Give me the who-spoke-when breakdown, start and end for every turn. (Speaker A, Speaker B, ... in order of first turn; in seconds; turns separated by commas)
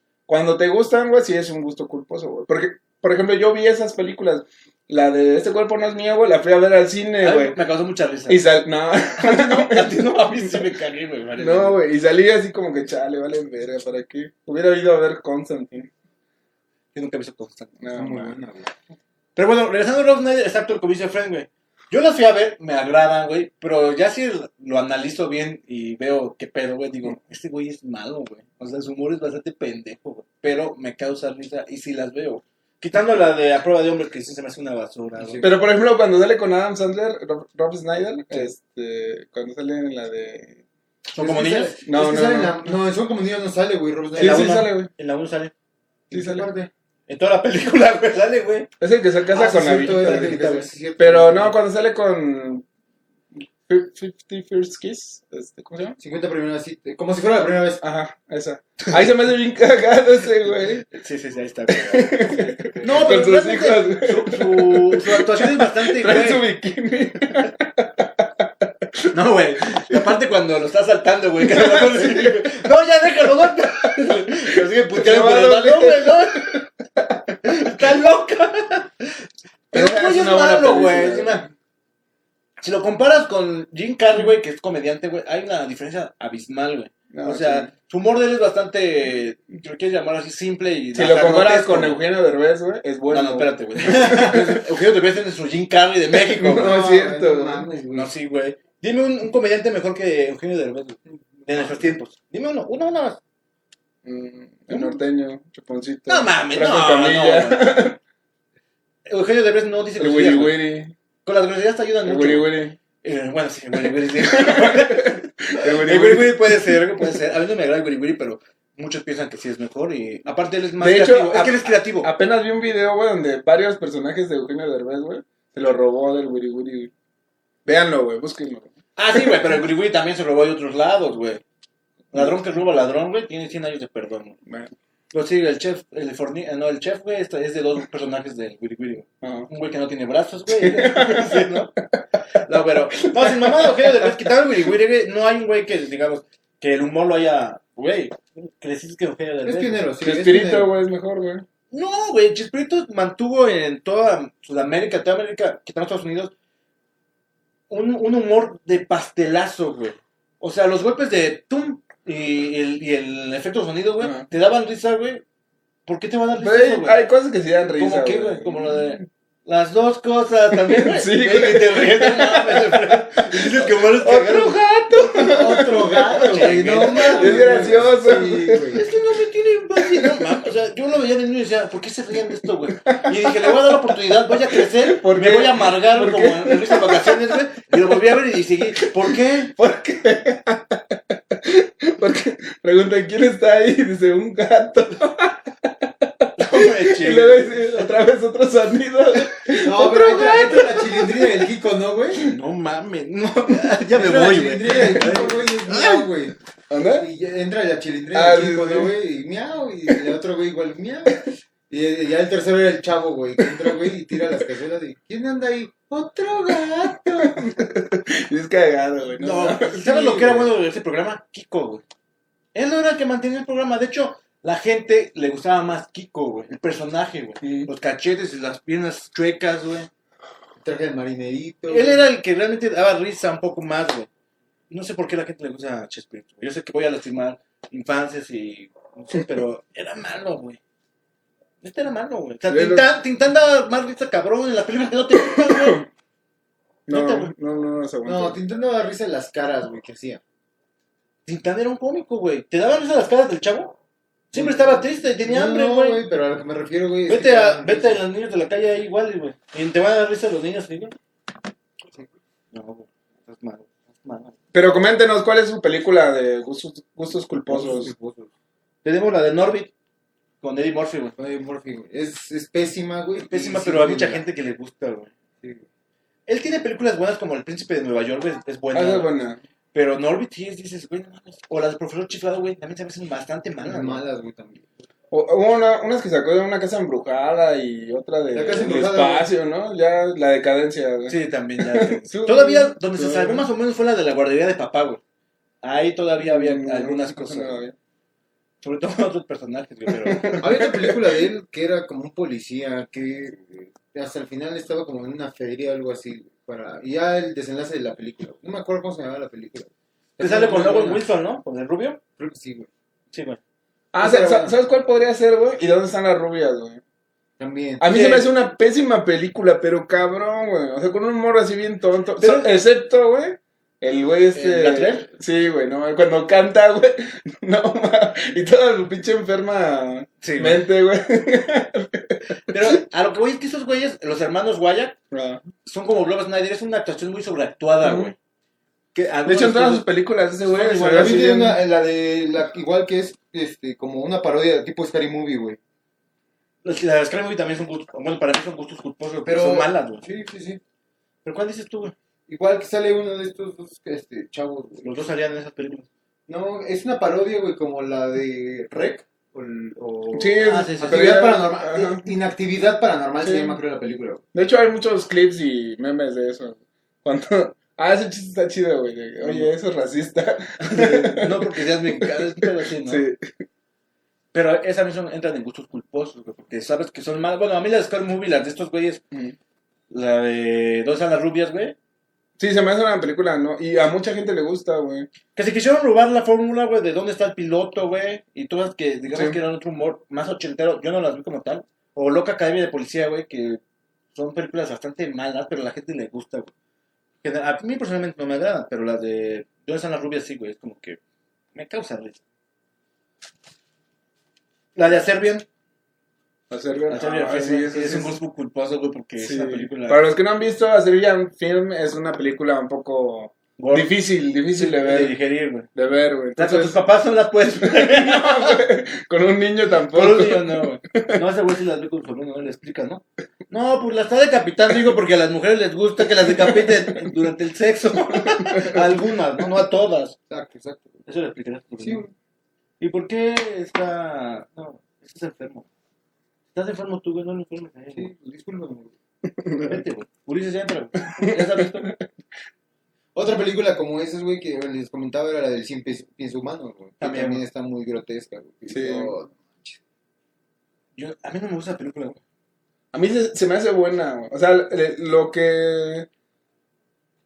Speaker A: 0.3-7.6, Speaker B: 7.2-8.4, Speaker A: 8.3-10.6, Speaker B: 9.2-11.8, Speaker A: 11.4-15.9, Speaker B: 16.9-17.8, Speaker A: 17.8-18.4, Speaker C: 17.9-18.7, Speaker B: 19.4-35.4, Speaker C: 35.2-35.5, Speaker A: 35.4-40.6, Speaker B: 41.1-41.8, Speaker C: 41.2-44.6, Speaker A: 41.9-42.7, Speaker A: 44.2-44.9, Speaker B: 44.2-45.5, Speaker C: 46.1-46.7, Speaker A: 46.1-46.5, Speaker B: 47.1-48.7, Speaker A: 48.8-50.4, Speaker C: 49.3-51.5, Speaker B: 49.8-50.7, Speaker A: 51.0-52.7, Speaker A: 53.4-56.0, Speaker C: 56.0-57.8, Speaker A: 57.8-60.9, Speaker B: 60.9-66.4, Speaker A: 61.7-69.1, Speaker B: 69.1-76.7, Speaker A: 71.4-72.5, Speaker A: 73.8-77.0, Speaker B: 77.4-81.5, Speaker A: 79.7-81.5, Speaker B: 82.6-92.0, Speaker A: 87.1-87.7, Speaker A: 90.9-94.6, Speaker B: 93.1-96.7, Speaker A: 96.2-97.7, Speaker C: 96.5-98.1, Speaker B: 97.9-103.2, Speaker A: 104.0-108.0, Speaker B: 104.7-105.0, Speaker B: 106.1-107.8, Speaker B: 109.1-110.6, Speaker A: 110.0-110.9, Speaker B: 111.2-122.1, Speaker A: 112.0-112.8, Speaker A: 113.8-117.2, Speaker A: 120.8-126.9, Speaker A: 127.7-129.6, Speaker B: 129.0-131.4, Speaker A: 132.1-132.4, Speaker B: 132.1-134.4, Speaker A: 134.5-134.7, Speaker B: 135.1-141.8, Speaker A: 139.2-139.5, Speaker A: 140.5-142.0, Speaker B: 142.3-149.8, Speaker A: 143.1-144.3, Speaker C: 149.4-150.7, Speaker A: 150.0-151.5, Speaker B: 151.7-156.3, Speaker B: 157.7-165.2, Speaker A: 164.0-164.3, Speaker B: 165.9-167.1, Speaker A: 166.4-169.1, Speaker B: 167.8-177.8, Speaker A: 170.5-178.7, Speaker C: 175.1-178.9, Speaker B: 178.7-189.5, Speaker A: 179.8-180.3, Speaker A: 182.9-187.4, Speaker A: 188.8-200.8, Speaker B: 196.4-197.5, Speaker C: 199.5-202.3, Speaker B: 199.9-200.7, Speaker B: 202.2-206.1, Speaker C: 203.9-206.3, Speaker A: 206.7-207.1, Speaker C: 207.0-217.5, Speaker A: 208.1-208.9, Speaker A: 213.5-213.7, Speaker A: 217.2-220.4, Speaker B: 219.2-221.8, Speaker B: 222.5-229.9, Speaker A: 227.4-227.7, Speaker C: 230.6-232.1, Speaker B: 231.7-234.1, Speaker B: 234.7-240.6, Speaker B: 241.6-245.8, Speaker A: 242.5-242.9, Speaker A: 245.3-245.8, Speaker A: 246.9-248.4, Speaker B: 246.9-247.3, Speaker C: 248.1-250.2, Speaker B: 251.3-253.8, Speaker B: 254.3-256.0, Speaker C: 254.3-258.0, Speaker B: 257.1-261.0, Speaker B: 262.5-264.4, Speaker A: 264.5-267.9, Speaker C: 267.5-268.3, Speaker B: 268.8-269.7, Speaker B: 270.4-271.1, Speaker C: 271.2-274.2, Speaker B: 273.2-275.1, Speaker B: 276.3-279.1, Speaker A: 278.7-279.4, Speaker B: 279.7-284.0, Speaker C: 283.6-284.7, Speaker A: 285.1-293.5, Speaker C: 288.3-289.3, Speaker B: 291.1-295.0, Speaker B: 295.6-297.6, Speaker A: 296.2-297.8, Speaker B: 298.6-300.5, Speaker A: 299.9-301.0, Speaker C: 300.4-311.1, Speaker B: 310.2-312.0, Speaker C: 312.2-312.7, Speaker B: 313.1-313.4, Speaker A: 313.9-316.8, Speaker C: 314.0-314.5, Speaker C: 317.4-318.3, Speaker A: 317.8-332.8, Speaker B: 322.2-322.5, Speaker B: 324.3-325.1, Speaker B: 330.2-330.6, Speaker B: 332.5-335.0, Speaker A: 335.1-335.4, Speaker B: 335.6-338.1, Speaker A: 337.8-338.1, Speaker B: 338.9-339.9, Speaker A: 339.2-341.6, Speaker B: 340.4-341.3, Speaker C: 340.9-345.6, Speaker B: 346.6-350.0, Speaker C: 349.2-350.6, Speaker B: 351.2-351.9, Speaker C: 352.3-355.0, Speaker B: 354.8-355.9, Speaker C: 356.3-364.2, Speaker A: 360.1-362.1, Speaker B: 360.4-361.2, Speaker A: 363.2-363.6, Speaker A: 364.3-373.4, Speaker B: 369.2-369.5, Speaker B: 370.6-373.1, Speaker B: 374.3-379.0, Speaker B: 379.9-381.8, Speaker A: 382.4-385.1, Speaker B: 385.4-393.6, Speaker A: 389.1-389.4, Speaker B: 394.1-396.5, Speaker B: 397.2-401.0, Speaker B: 401.6-402.2, Speaker B: 404.8-405.5, Speaker A: 406.5-408.2, Speaker B: 406.9-410.0, Speaker A: 409.2-415.1, Speaker B: 413.6-413.9, Speaker B: 414.5-415.7, Speaker A: 415.8-416.8, Speaker B: 416.4-418.6, Speaker A: 417.6-421.2, Speaker B: 419.9-430.2, Speaker A: 426.2-427.0, Speaker A: 428.1-429.0, Speaker C: 430.3-431.1, Speaker B: 431.1-432.1, Speaker C: 431.8-432.1, Speaker B: 432.8-435.7, Speaker B: 436.5-438.1, Speaker C: 437.9-438.9, Speaker A: 439.3-439.8, Speaker B: 439.6-441.9, Speaker A: 441.2-442.0, Speaker C: 443.1-449.8, Speaker B: 447.0-447.4, Speaker A: 448.7-449.1, Speaker B: 451.0-452.2, Speaker A: 452.9-456.1